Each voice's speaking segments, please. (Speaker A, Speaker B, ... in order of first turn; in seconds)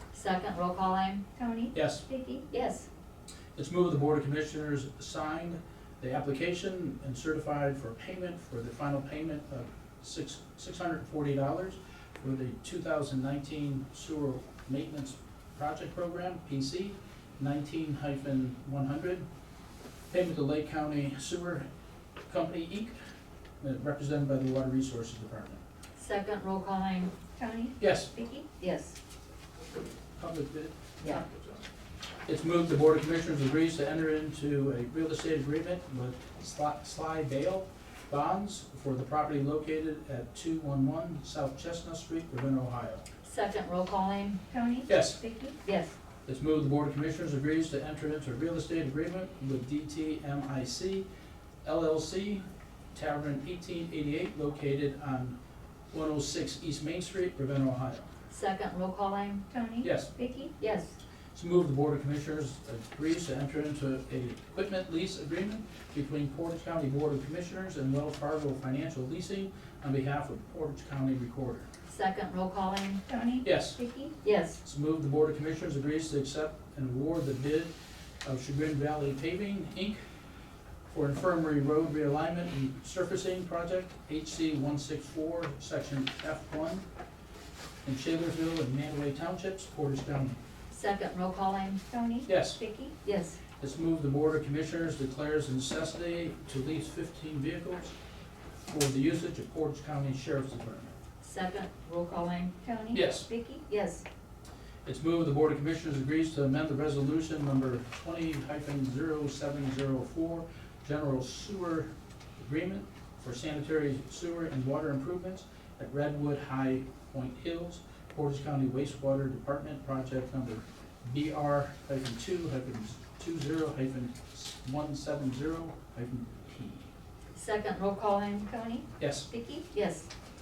Speaker A: 0.1-1.2, 2.5-2.9, 25.9-27.1, 28.6-29.0, 43.2-44.4, 45.6-46.0, 58.3-59.4, 60.6-61.0, 71.9-73.0, 74.2-74.6, 90.7-91.8, 93.0-93.4, 101.2-102.5, 103.7-104.0, 127.3-128.5, 129.7-130.1
Speaker B: 1.4-2.5, 27.4-28.5, 44.5-45.5, 59.5-60.5, 73.1-74.1, 91.9-92.9, 102.6-103.6, 128.5-129.7
Speaker C: 1.7-2.0, 3.5-19.2, 20.1-21.6, 22.3-23.0, 23.6-25.6, 27.8-28.1, 30.2-31.6, 32.3-43.0, 44.9-45.2, 46.2-51.0, 51.6-52.4, 52.9-55.4, 55.9-58.1, 59.8-60.1, 61.3-71.7, 73.4-73.8, 74.6-77.7, 78.2-80.0, 80.9-86.8, 87.8-90.4, 92.2-92.6, 93.6-97.9, 98.7-100.9, 102.9-103.3, 104.8-126.9, 129.0-129.3